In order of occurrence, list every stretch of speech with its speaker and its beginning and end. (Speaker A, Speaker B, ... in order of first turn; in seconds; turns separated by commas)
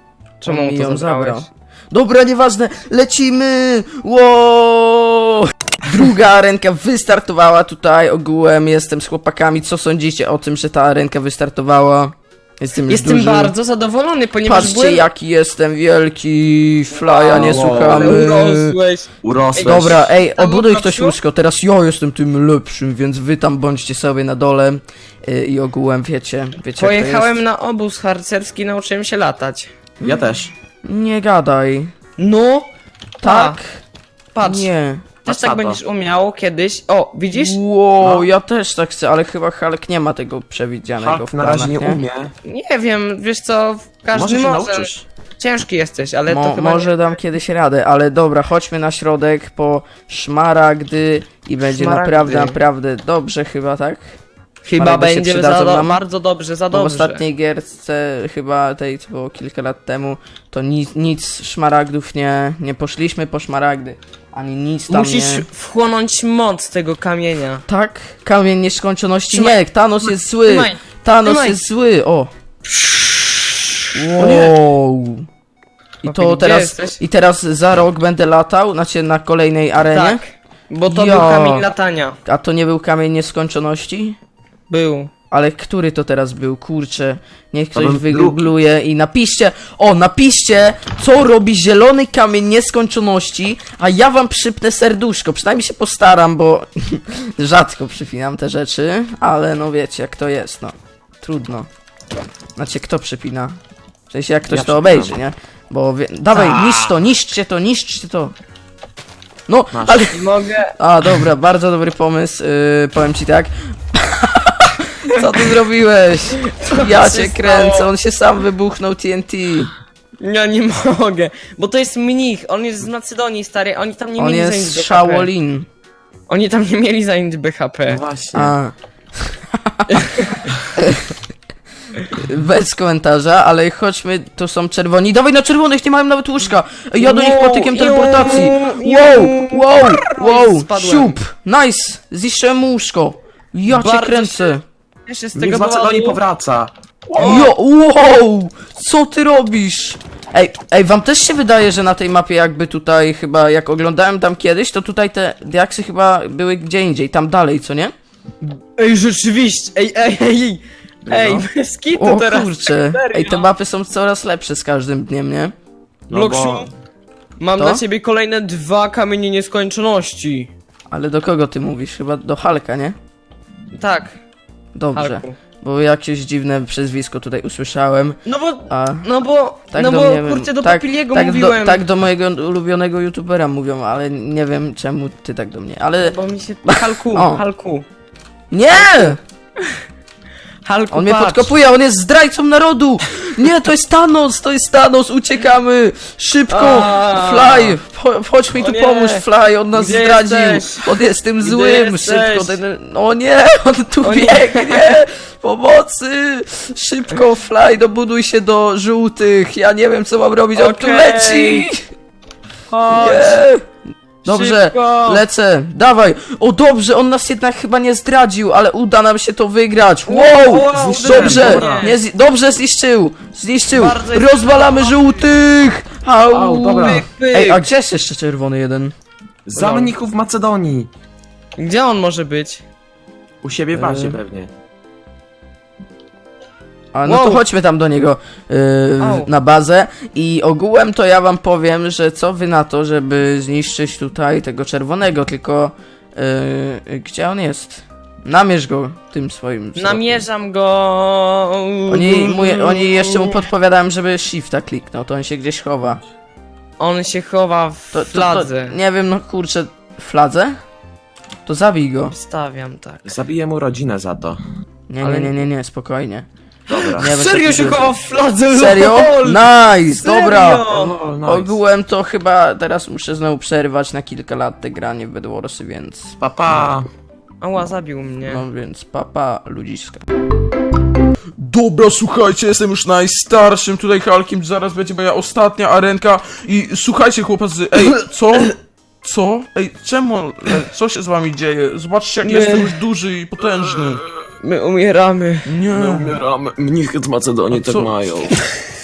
Speaker A: 0.4-1.5, Speaker B: 0.5-13.6, Speaker A: 12.9-15.1, Speaker B: 14.4-18.8, Speaker A: 17.0-21.2, Speaker C: 17.3-18.3, Speaker C: 19.2-20.1, Speaker B: 19.6-27.4, Speaker A: 26.8-29.7, Speaker C: 30.0-30.5, Speaker B: 30.8-31.9, Speaker A: 32.2-32.7, Speaker A: 33.2-33.6, Speaker B: 33.2-33.8, Speaker A: 34.4-34.7, Speaker B: 34.4-35.1, Speaker A: 35.2-37.6, Speaker C: 35.3-35.8, Speaker B: 37.3-42.0, Speaker C: 38.0-38.3, Speaker C: 41.0-42.3, Speaker A: 42.5-47.0, Speaker C: 44.1-45.0, Speaker B: 46.3-54.1, Speaker A: 51.6-52.6, Speaker A: 54.6-57.2, Speaker B: 54.8-56.0, Speaker B: 56.7-65.5, Speaker A: 64.9-67.6, Speaker B: 67.7-72.3, Speaker A: 69.3-71.6, Speaker B: 74.0-75.3, Speaker A: 74.1-74.5, Speaker B: 76.0-80.2, Speaker A: 76.0-77.0, Speaker A: 79.9-82.2, Speaker B: 80.9-81.7, Speaker B: 82.2-84.2, Speaker A: 84.7-85.1, Speaker B: 85.3-101.7, Speaker C: 87.8-88.5, Speaker B: 102.6-103.6, Speaker B: 104.1-108.3, Speaker C: 104.5-105.2, Speaker C: 106.3-107.0, Speaker B: 109.5-110.2, Speaker C: 109.7-110.1, Speaker A: 110.1-110.7, Speaker B: 110.8-119.7, Speaker A: 116.5-117.9, Speaker A: 120.2-125.3, Speaker B: 124.2-125.7, Speaker A: 126.3-128.0, Speaker C: 127.9-128.6, Speaker B: 128.3-130.1, Speaker A: 129.9-130.5, Speaker B: 130.8-131.1, Speaker B: 132.1-144.6, Speaker A: 137.0-141.2, Speaker A: 143.7-146.2, Speaker C: 145.3-146.7, Speaker A: 147.1-147.5, Speaker B: 147.2-157.9, Speaker A: 158.5-163.5, Speaker C: 161.1-161.5, Speaker B: 162.0-165.5, Speaker C: 166.1-166.7, Speaker A: 166.1-166.7, Speaker A: 167.4-170.5, Speaker B: 170.9-172.9, Speaker A: 173.7-174.2, Speaker B: 174.8-179.1, Speaker A: 174.9-175.4, Speaker A: 178.3-181.8, Speaker B: 179.7-186.2, Speaker A: 186.0-187.8, Speaker B: 186.7-187.4, Speaker B: 188.5-189.2, Speaker A: 188.8-189.8, Speaker A: 190.7-191.5, Speaker B: 190.9-211.8, Speaker A: 196.5-197.8, Speaker A: 198.6-200.8, Speaker A: 201.4-202.6, Speaker A: 204.0-205.0, Speaker A: 210.6-211.7, Speaker A: 212.7-213.4, Speaker B: 212.9-213.7, Speaker A: 214.2-215.2, Speaker B: 214.2-228.9, Speaker A: 220.1-222.0, Speaker C: 220.7-221.9, Speaker A: 223.7-225.3, Speaker C: 226.3-227.1, Speaker A: 226.8-227.7, Speaker C: 229.5-230.9, Speaker A: 229.6-230.0, Speaker A: 231.6-232.6, Speaker C: 233.4-234.5, Speaker B: 233.7-234.2, Speaker B: 236.9-250.2, Speaker A: 237.1-237.4, Speaker A: 239.0-239.3, Speaker A: 249.8-253.5, Speaker B: 251.9-256.0, Speaker A: 256.8-258.8, Speaker B: 257.9-260.6, Speaker B: 261.5-262.1, Speaker A: 262.1-263.2, Speaker C: 263.1-264.4, Speaker B: 264.9-266.3, Speaker A: 265.0-265.4, Speaker C: 266.7-267.1, Speaker A: 266.7-270.9, Speaker B: 267.0-267.9, Speaker B: 268.5-270.7, Speaker C: 270.6-271.6, Speaker B: 271.2-276.2, Speaker C: 276.2-276.9, Speaker A: 277.4-278.4, Speaker B: 278.2-280.1, Speaker B: 281.4-294.0, Speaker A: 292.2-292.8, Speaker A: 294.4-295.5, Speaker B: 295.4-296.2, Speaker C: 295.7-298.4, Speaker B: 297.5-298.1